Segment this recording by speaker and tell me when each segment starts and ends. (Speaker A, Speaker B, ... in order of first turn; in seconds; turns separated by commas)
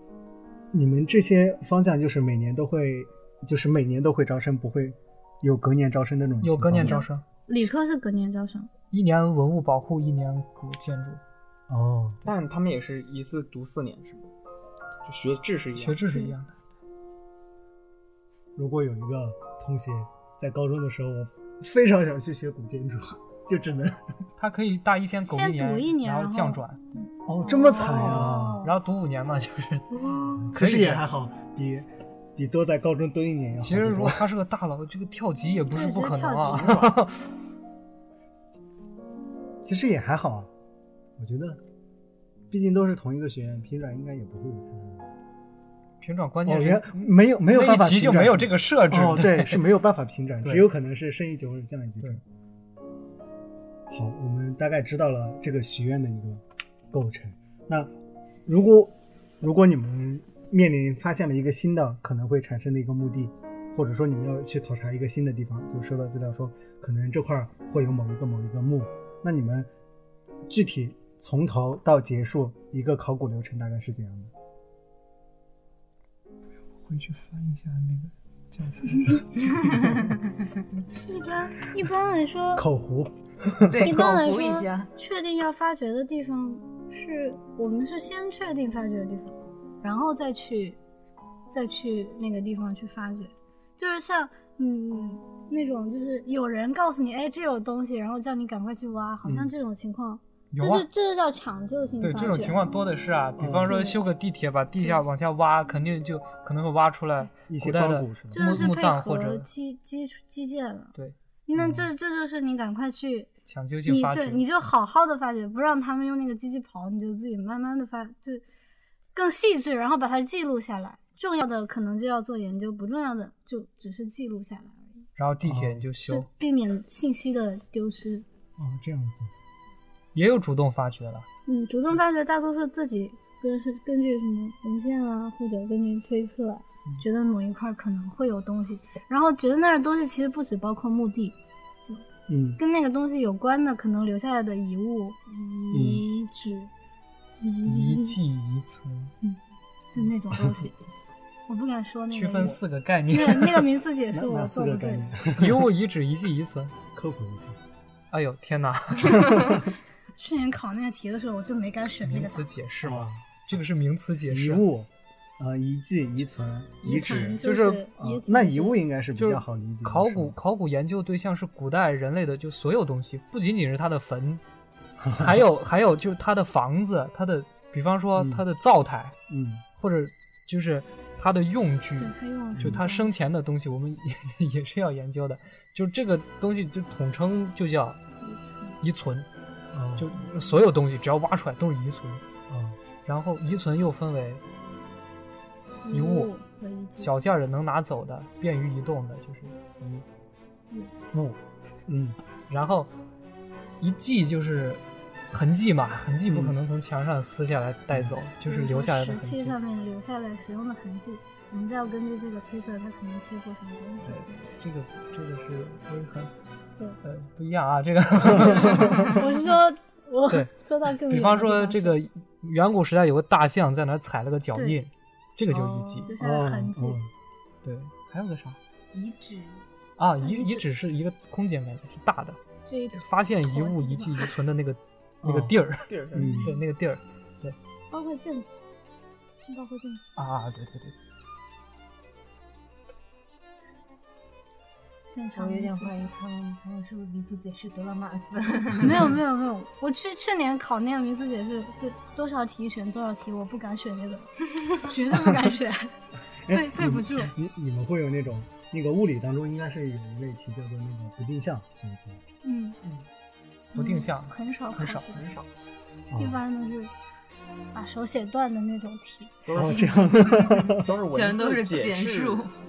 Speaker A: 0.7-7.0, Speaker B: 6.4-7.2, Speaker C: 6.8-8.7, Speaker B: 8.9-11.2, Speaker A: 11.7-12.2, Speaker D: 12.2-14.3, Speaker D: 15.1-16.0, Speaker B: 15.8-16.6, Speaker C: 16.1-16.3, Speaker A: 18.6-24.0, Speaker B: 24.4-27.1, Speaker C: 25.3-28.7, Speaker A: 27.2-28.7, Speaker B: 27.9-31.0, Speaker C: 30.0-30.4, Speaker A: 30.4-34.2, Speaker B: 33.6-37.3, Speaker C: 35.7-36.8, Speaker D: 36.5-36.9, Speaker A: 39.6-40.5, Speaker A: 41.2-41.6, Speaker A: 42.5-45.1, Speaker B: 46.0-49.6, Speaker A: 46.4-52.2, Speaker A: 53.9-57.9, Speaker A: 58.5-69.7, Speaker A: 70.5-74.3, Speaker B: 76.8-79.9, Speaker E: 79.6-80.1, Speaker C: 81.0-82.7, Speaker A: 82.6-84.0, Speaker E: 83.7-84.9, Speaker C: 83.8-90.8, Speaker C: 91.5-102.6, Speaker A: 99.2-99.5, Speaker B: 100.5-100.9, Speaker B: 102.0-109.5, Speaker A: 103.4-103.8, Speaker C: 103.7-104.0, Speaker A: 107.5-108.6, Speaker C: 108.3-110.9, Speaker C: 111.5-113.3, Speaker A: 111.6-111.9, Speaker B: 113.5-114.5, Speaker C: 113.9-118.4, Speaker C: 119.2-124.9, Speaker B: 125.2-126.3, Speaker A: 125.4-125.9, Speaker C: 126.0-128.2, Speaker A: 128.6-129.3, Speaker B: 130.2-131.3, Speaker C: 131.5-142.0, Speaker A: 142.3-142.6, Speaker C: 142.6-146.7, Speaker A: 145.7-146.0, Speaker C: 147.4-148.2, Speaker B: 147.7-149.1, Speaker C: 149.9-150.7, Speaker C: 151.5-155.0, Speaker B: 152.1-153.7, Speaker A: 154.1-155.7, Speaker B: 155.4-156.8, Speaker A: 156.9-157.6, Speaker B: 158.1-159.4, Speaker A: 159.0-159.6, Speaker C: 160.2-162.4, Speaker B: 162.0-164.7, Speaker A: 162.8-163.6, Speaker A: 164.3-167.4, Speaker C: 166.8-168.8, Speaker E: 167.0-167.3, Speaker B: 167.4-167.8, Speaker A: 168.0-170.3, Speaker B: 169.2-174.4, Speaker A: 175.0-175.4, Speaker B: 175.2-179.2, Speaker A: 178.2-178.4, Speaker A: 179.3-179.6, Speaker B: 179.8-188.0, Speaker C: 182.0-183.2, Speaker A: 182.6-182.8, Speaker C: 188.2-188.8, Speaker B: 188.8-189.3, Speaker A: 189.7-190.1, Speaker B: 190.0-192.2, Speaker A: 192.5-192.8, Speaker B: 193.1-194.4, Speaker C: 195.8-197.1, Speaker B: 195.9-196.3, Speaker B: 197.0-200.0, Speaker A: 201.1-202.2, Speaker B: 202.5-202.9, Speaker B: 203.8-209.5, Speaker A: 206.3-206.6, Speaker A: 207.9-208.2, Speaker C: 208.5-214.4, Speaker B: 214.1-216.3, Speaker B: 217.0-219.2, Speaker A: 218.3-219.1, Speaker C: 218.3-222.0, Speaker B: 220.3-226.1, Speaker C: 224.5-224.8, Speaker E: 225.5-226.1, Speaker C: 226.1-227.0, Speaker A: 226.2-227.1, Speaker B: 227.6-228.6, Speaker E: 228.9-229.6, Speaker B: 230.0-232.4, Speaker E: 230.2-230.6, Speaker C: 232.7-234.3, Speaker B: 232.9-237.6, Speaker A: 235.2-235.5, Speaker D: 235.9-236.3, Speaker A: 236.1-236.5, Speaker C: 236.2-236.6, Speaker C: 237.9-238.5, Speaker C: 239.4-240.0, Speaker B: 240.2-240.9, Speaker C: 245.1-246.1, Speaker E: 245.3-249.2, Speaker C: 248.8-255.9, Speaker A: 256.4-262.2, Speaker C: 256.5-257.3, Speaker C: 262.4-262.8, Speaker C: 263.7-265.2, Speaker B: 263.8-265.1, Speaker D: 265.1-265.5, Speaker A: 266.1-266.4, Speaker C: 266.2-266.9, Speaker C: 267.7-269.3, Speaker D: 269.5-272.5, Speaker A: 269.5-270.9, Speaker E: 271.1-272.5